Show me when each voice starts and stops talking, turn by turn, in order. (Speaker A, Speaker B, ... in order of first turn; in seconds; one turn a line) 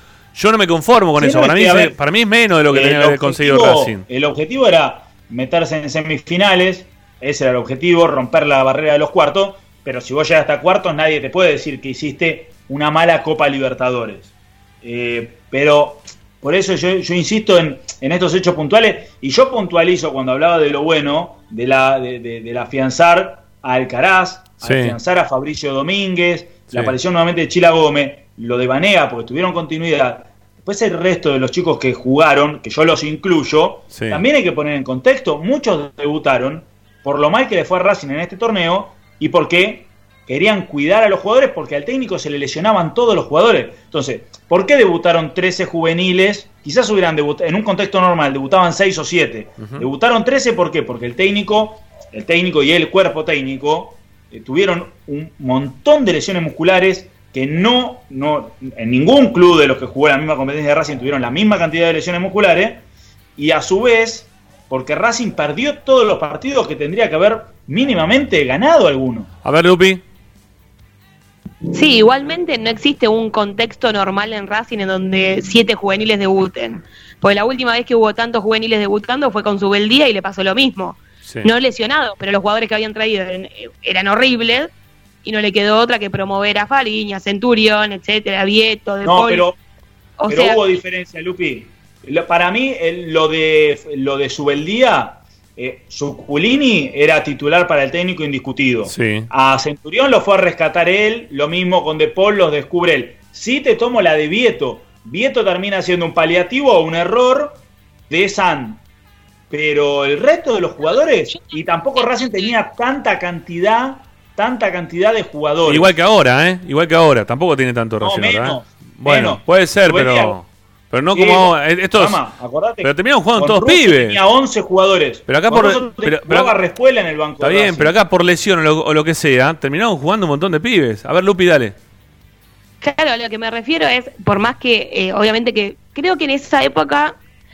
Speaker A: 0.3-4.0
Speaker B: 1.2-1.9
Speaker B: 2.7-14.3
Speaker B: 14.8-62.8
Speaker A: 24.6-25.0
Speaker A: 26.7-27.0
Speaker A: 33.9-34.2
Speaker A: 49.6-49.9
Speaker B: 63.4-69.3
Speaker A: 69.4-70.0
Speaker C: 71.7-84.7
Speaker C: 85.2-89.5
Speaker B: 89.0-89.6
Speaker C: 90.2-90.6
Speaker B: 90.3-107.6
Speaker A: 98.9-99.3
Speaker B: 108.1-108.8
Speaker B: 109.5-115.9
Speaker A: 115.7-122.2
Speaker B: 118.0-120.3
Speaker B: 121.1-127.9
Speaker A: 122.8-124.2
Speaker A: 125.3-126.5
Speaker A: 127.4-131.8
Speaker C: 132.8-137.2